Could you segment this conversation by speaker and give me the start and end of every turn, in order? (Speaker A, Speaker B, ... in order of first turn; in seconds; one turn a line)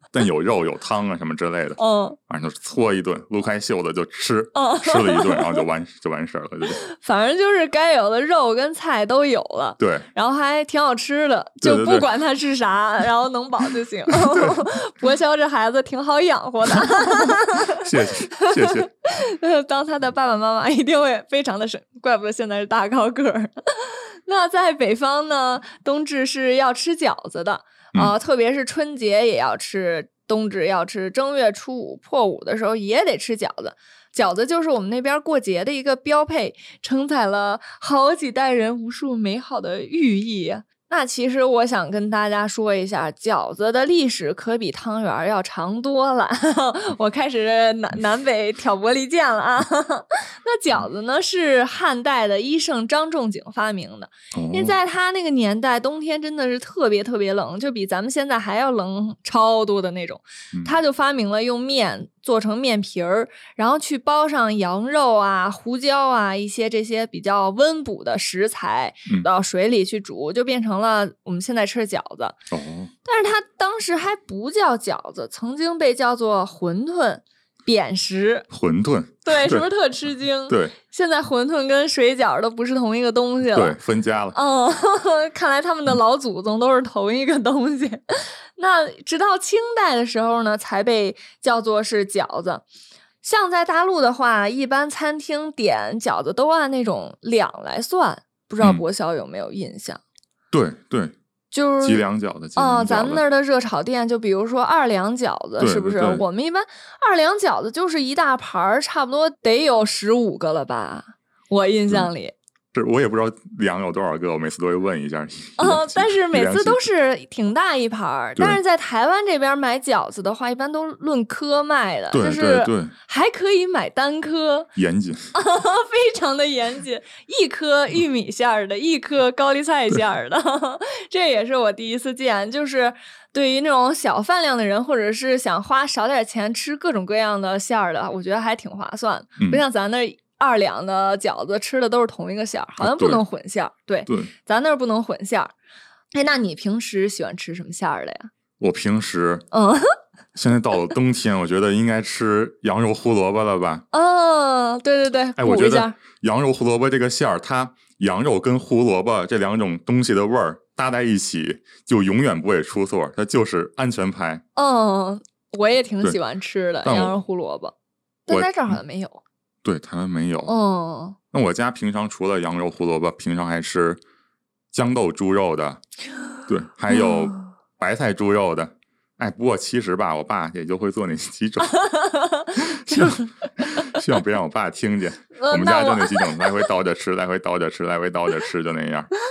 Speaker A: 0.1-6.8
Speaker B: 1.8-2.2
Speaker B: 4.5-5.7
Speaker B: 6.7-72.4
Speaker A: 9.8-10.1
Speaker A: 11.6-12.1
Speaker A: 14.1-14.6
Speaker A: 17.8-18.9
Speaker A: 54.3-54.8
Speaker A: 72.5-72.9
Speaker B: 73.0-78.5
Speaker A: 78.5-79.7
Speaker B: 79.2-83.8
Speaker A: 80.5-80.8
Speaker A: 83.5-84.4
Speaker B: 84.3-88.0
Speaker B: 88.6-92.6
Speaker B: 93.2-100.0
Speaker A: 100.5-101.1
Speaker B: 101.5-102.0
Speaker A: 101.8-103.2
Speaker B: 102.5-112.3
Speaker A: 105.6-106.2
Speaker A: 112.7-116.8
Speaker B: 115.6-124.7
Speaker A: 122.1-122.9
Speaker A: 124.8-125.2
Speaker B: 125.3-145.5
Speaker A: 142.8-143.2
Speaker A: 144.1-144.3
Speaker B: 146.1-148.3
Speaker A: 148.6-149.4
Speaker B: 149.5-149.8
Speaker A: 150.3-153.8
Speaker B: 153.9-156.0
Speaker A: 155.4-164.4
Speaker B: 164.6-167.7
Speaker A: 166.8-167.2
Speaker B: 168.3-169.2
Speaker A: 168.3-168.8
Speaker A: 169.6-170.5
Speaker B: 170.4-171.2
Speaker A: 171.3-174.0
Speaker A: 174.7-175.8
Speaker A: 176.5-181.8
Speaker B: 176.9-177.5
Speaker B: 181.7-184.0
Speaker A: 182.6-183.2
Speaker A: 183.7-189.1
Speaker B: 185.3-186.5